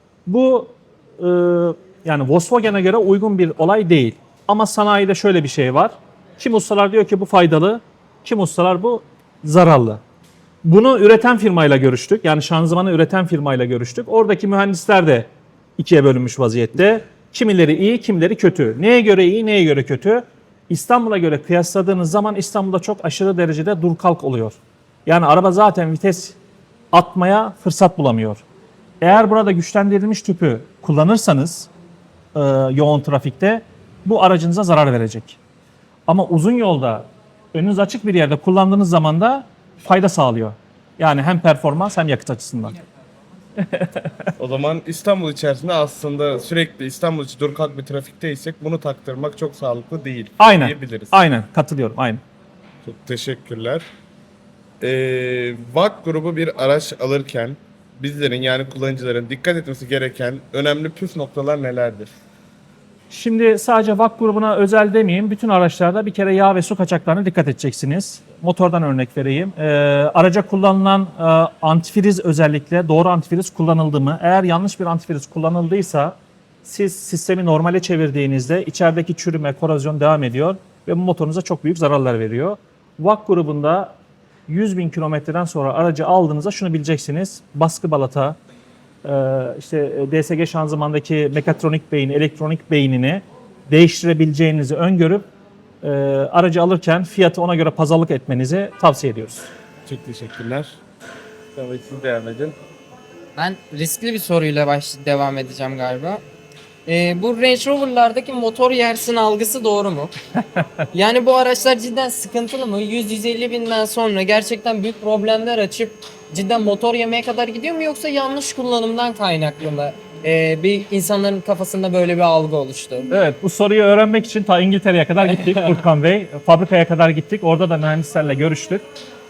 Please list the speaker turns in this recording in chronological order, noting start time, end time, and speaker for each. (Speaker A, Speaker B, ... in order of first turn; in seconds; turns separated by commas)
Speaker A: 0.2-10.0, Speaker A: 10.6-26.4, Speaker A: 26.9-28.4, Speaker A: 29.0-31.7, Speaker A: 32.3-35.4, Speaker A: 36.1-42.8, Speaker A: 43.6-44.3, Speaker B: 44.4-51.1, Speaker A: 50.4-52.2, Speaker B: 52.8-53.8, Speaker B: 54.8-62.1, Speaker A: 63.1-83.9, Speaker A: 84.5-88.4, Speaker A: 89.0-95.2, Speaker A: 95.8-99.5, Speaker B: 99.8-100.8, Speaker B: 101.5-102.5, Speaker C: 103.3-106.2, Speaker C: 106.8-110.1, Speaker C: 110.9-123.1, Speaker A: 123.1-128.8, Speaker C: 125.4-125.8